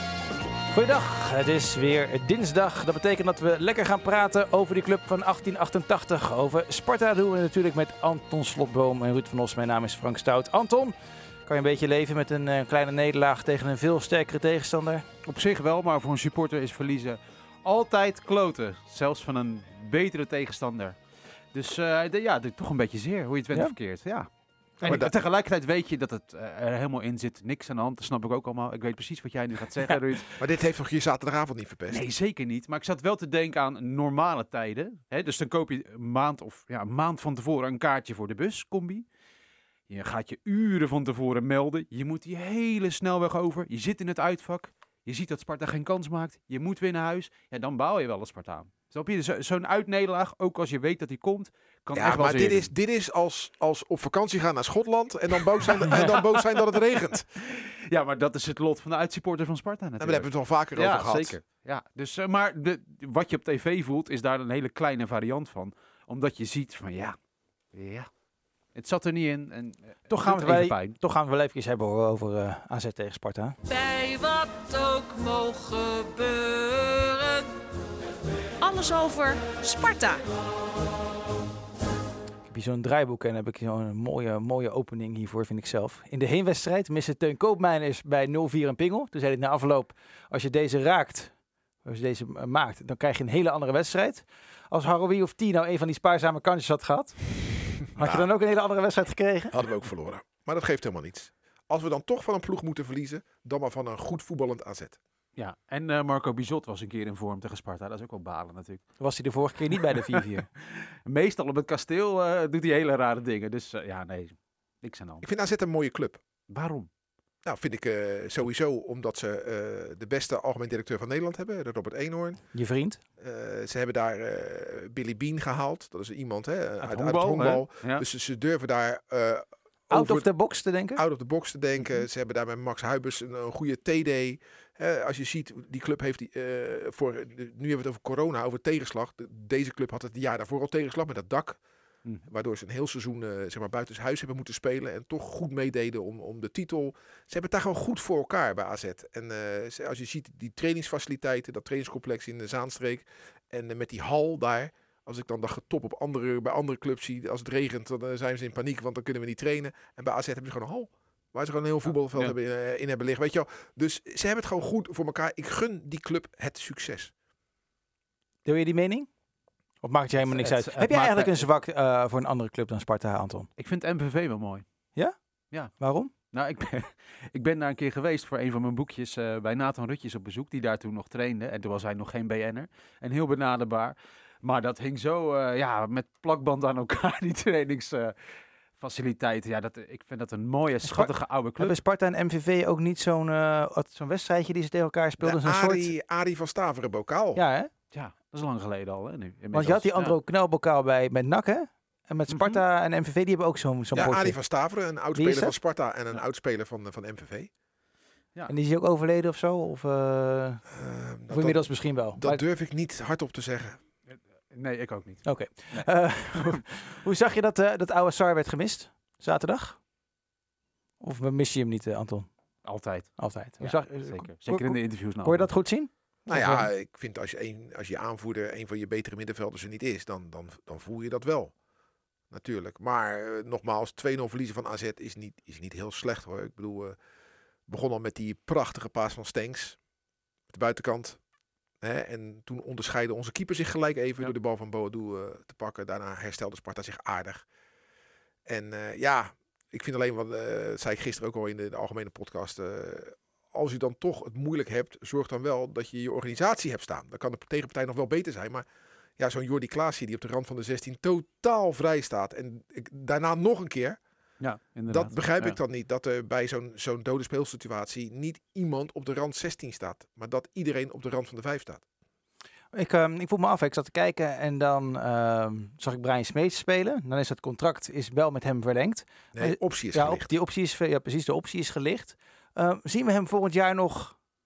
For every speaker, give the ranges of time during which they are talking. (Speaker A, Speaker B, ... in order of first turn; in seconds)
Speaker A: 0.7-15.0, 70.1-73.6, 82.5-91.3, 91.8-99.6, 109.0-110.5, 122.5-123.0, 129.9-131.0, 168.4-169.1, 169.8-173.5, 175.8-176.1, 190.8-195.9, 197.4-197.7, 199.5-204.4, 205.2-205.6, 208.5-210.6, 211.3-212.4, 215.2-219.8, 221.0-222.3, 223.2-226.7, 272.7-284.1
Speaker B: 15.2-20.9, 21.5-24.3, 24.8-30.3, 31.9-39.0, 39.9-52.7, 55.9-56.5, 57.4-67.2, 67.7-68.1, 68.8-71.0, 105.4-108.8, 109.8-115.2, 116.5-116.9, 126.8-128.1, 170.2-171.5, 173.6-174.6, 176.3-188.2, 188.8-191.8, 197.9-200.2, 202.3-202.6, 214.5-216.6, 222.7-225.5, 264.4-265.6
Speaker C: 24.8-25.1, 30.4-32.1, 51.9-57.3, 60.0-61.4, 98.0-98.3, 99.5-105.0, 115.2-116.2, 117.4-122.4, 123.2-130.3, 131.0-141.6, 142.3-167.1, 195.2-197.4, 203.9-207.5, 210.7-213.8, 226.3-231.5, 232.3-237.0, 237.7-239.8, 240.5-241.2, 241.8-247.5, 248.4-258.6, 259.2-264.0, 264.9-271.8, 279.3-280.3
Speaker D: 73.7-77.5, 78.6-80.2